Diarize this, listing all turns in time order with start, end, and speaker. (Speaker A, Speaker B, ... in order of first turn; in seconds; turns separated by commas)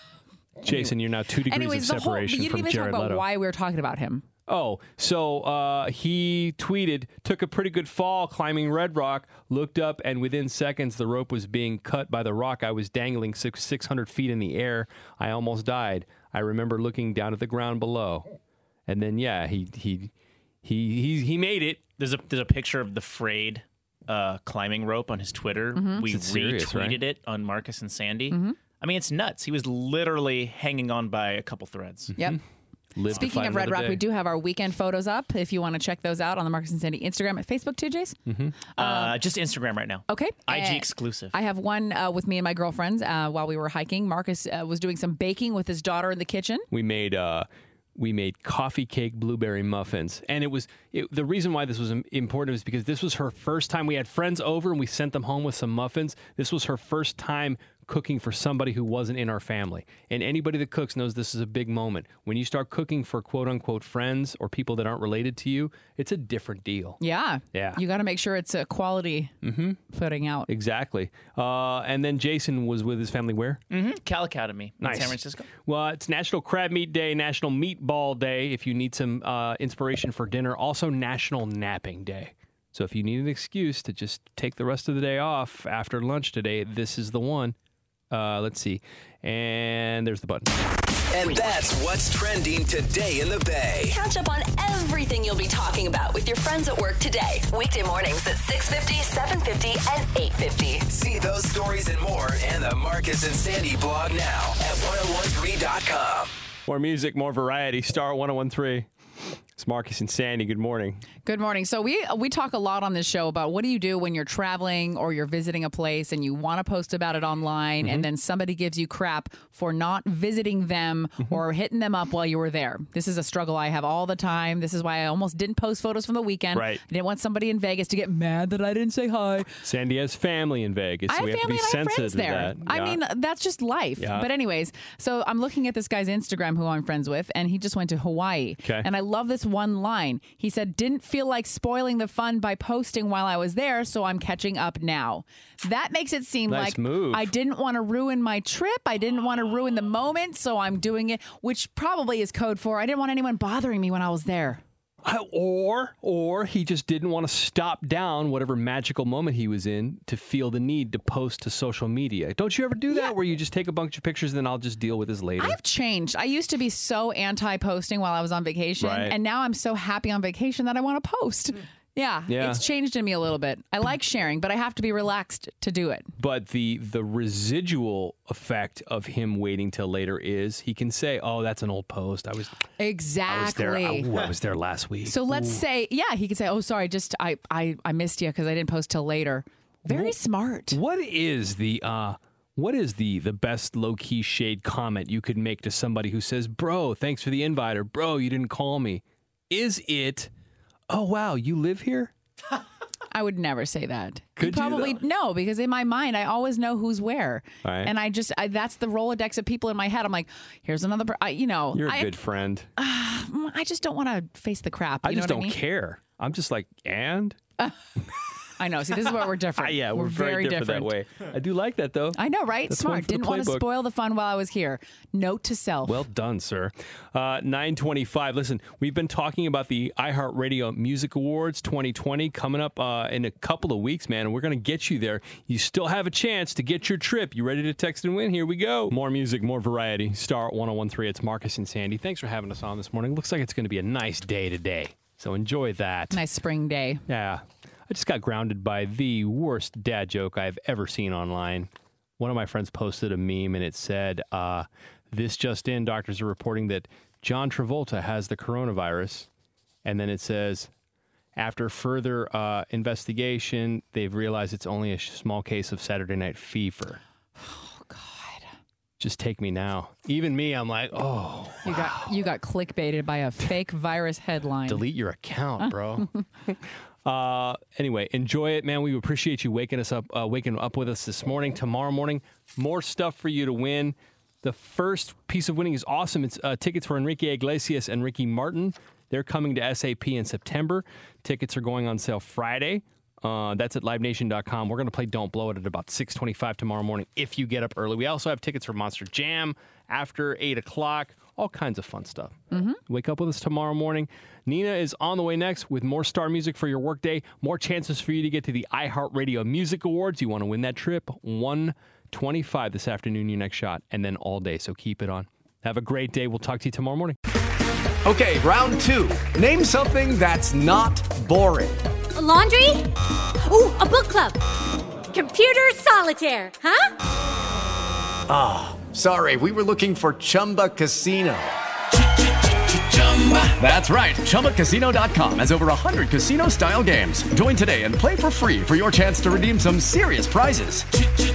Speaker A: 0.6-3.2, Speaker B: 1.5-4.2, Speaker A: 4.5-18.3, Speaker A: 18.9-20.1, Speaker A: 20.6-21.8, Speaker C: 22.0-32.1, Speaker B: 25.8-26.0, Speaker A: 26.1-27.0, Speaker B: 28.3-28.6, Speaker A: 32.1-32.4, Speaker A: 33.0-34.0, Speaker B: 33.1-38.2, Speaker A: 38.3-38.5, Speaker C: 38.8-41.3, Speaker B: 38.8-39.1, Speaker B: 40.1-46.7, Speaker A: 46.7-67.0, Speaker B: 67.0-69.3, Speaker A: 67.5-67.8, Speaker A: 69.4-69.8, Speaker B: 69.9-70.5, Speaker A: 70.5-73.6, Speaker C: 73.7-75.5, Speaker A: 74.8-87.6, Speaker A: 88.1-90.5, Speaker D: 91.1-94.0, Speaker E: 93.9-100.8, Speaker D: 100.9-106.3, Speaker A: 106.7-108.9, Speaker A: 109.6-111.0, Speaker B: 111.2-129.2, Speaker A: 117.8-118.1, Speaker A: 126.5-126.8, Speaker A: 129.0-133.0, Speaker B: 131.1-154.6, Speaker A: 134.0-134.3, Speaker A: 146.5-147.3, Speaker A: 155.0-165.6, Speaker B: 162.9-163.1, Speaker B: 165.4-176.1, Speaker A: 168.8-169.2, Speaker A: 172.3-172.6, Speaker A: 176.2-182.6, Speaker B: 182.8-184.1, Speaker A: 183.3-185.6, Speaker B: 185.0-190.8, Speaker A: 189.9-190.2, Speaker A: 190.7-200.3, Speaker A: 200.9-202.1, Speaker B: 203.1-212.1, Speaker A: 204.4-205.0, Speaker A: 207.6-207.9, Speaker A: 211.7-212.7, Speaker B: 212.8-215.6, Speaker A: 215.0-217.4, Speaker B: 218.6-220.9, Speaker A: 219.6-223.7, Speaker B: 222.2-226.0, Speaker A: 225.8-246.2, Speaker B: 246.1-247.0, Speaker A: 247.1-259.3, Speaker A: 259.9-260.7, Speaker A: 261.4-267.0, Speaker B: 267.4-268.5, Speaker A: 269.0-272.0, Speaker B: 271.6-274.8, Speaker A: 274.7-317.2, Speaker B: 302.5-302.8, Speaker F: 318.1-321.8, Speaker G: 322.1-322.9, Speaker G: 323.4-324.4, Speaker G: 325.1-326.9, Speaker F: 328.3-331.6, Speaker D: 332.7-333.6, Speaker F: 333.6-340.9